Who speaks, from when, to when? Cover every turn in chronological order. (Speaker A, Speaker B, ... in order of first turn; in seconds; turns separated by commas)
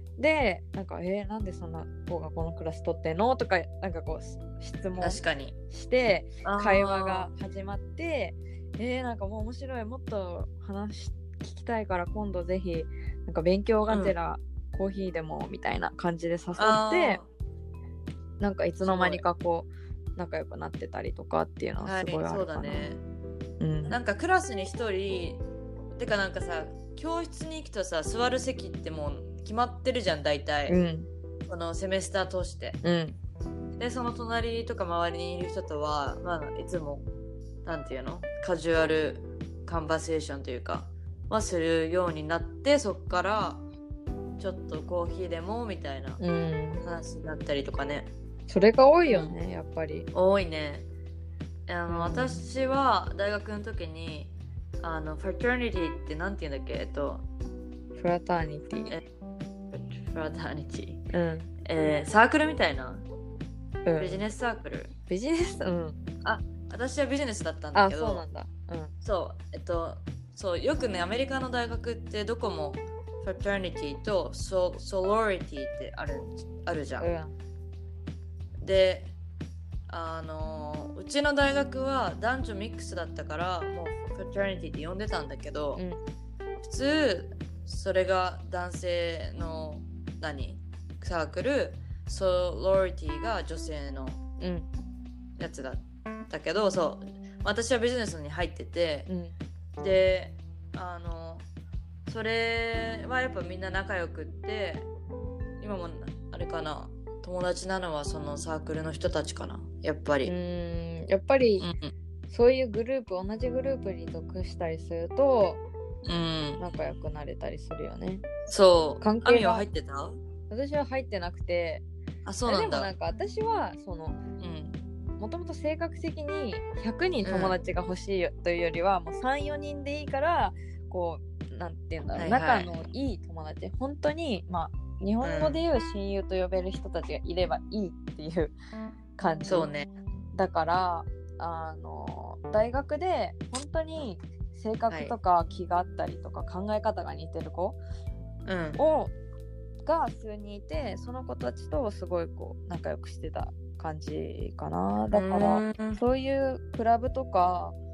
Speaker A: 0.2-17.2, Speaker B: 5.0-5.5, Speaker B: 6.4-7.3, Speaker B: 13.9-14.1, Speaker B: 16.6-17.3, Speaker A: 18.4-22.9, Speaker B: 18.8-19.2, Speaker B: 21.8-23.0, Speaker A: 23.6-24.0, Speaker B: 23.9-25.4, Speaker B: 25.9-30.8, Speaker A: 30.7-31.1, Speaker B: 31.5-32.8, Speaker A: 32.8-33.2, Speaker B: 33.8-37.1, Speaker B: 37.6-43.6, Speaker B: 44.4-46.2, Speaker A: 46.2-46.8, Speaker B: 46.8-48.1, Speaker A: 48.5-50.1, Speaker B: 49.1-49.4, Speaker B: 50.1-50.9, Speaker B: 51.7-57.3, Speaker A: 51.9-52.5, Speaker A: 58.0-59.0, Speaker B: 59.7-61.0, Speaker A: 61.1-61.5, Speaker B: 61.6-63.0, Speaker A: 63.9-64.2, Speaker B: 64.0-64.9, Speaker A: 65.1-66.0, Speaker B: 66.2-68.2, Speaker A: 67.7-68.9, Speaker B: 69.0-77.1, Speaker A: 77.0-77.3, Speaker B: 78.6-79.1, Speaker B: 79.9-85.8, Speaker B: 86.6-94.2, Speaker A: 94.4-94.7, Speaker B: 95.4-99.1, Speaker A: 99.1-99.3, Speaker B: 99.8-101.5, Speaker B: 102.1-104.9, Speaker B: 105.6-110.3, Speaker A: 110.2-111.7, Speaker B: 111.6-111.9, Speaker A: 112.3-115.6, Speaker B: 116.0-116.6, Speaker A: 116.6-118.2, Speaker B: 118.5-120.2, Speaker A: 119.0-119.7, Speaker A: 120.5-121.8, Speaker B: 122.3-122.9, Speaker A: 122.5-124.2, Speaker B: 124.4-124.8, Speaker A: 125.2-138.5, Speaker B: 127.2-127.6, Speaker B: 132.2-132.7, Speaker B: 135.2-135.6, Speaker A: 139.2-139.7, Speaker B: 139.5-139.9, Speaker A: 140.3-147.8, Speaker B: 144.9-145.1, Speaker B: 148.5-148.8, Speaker A: 148.8-149.1, Speaker A: 149.8-157.8, Speaker B: 155.1-156.0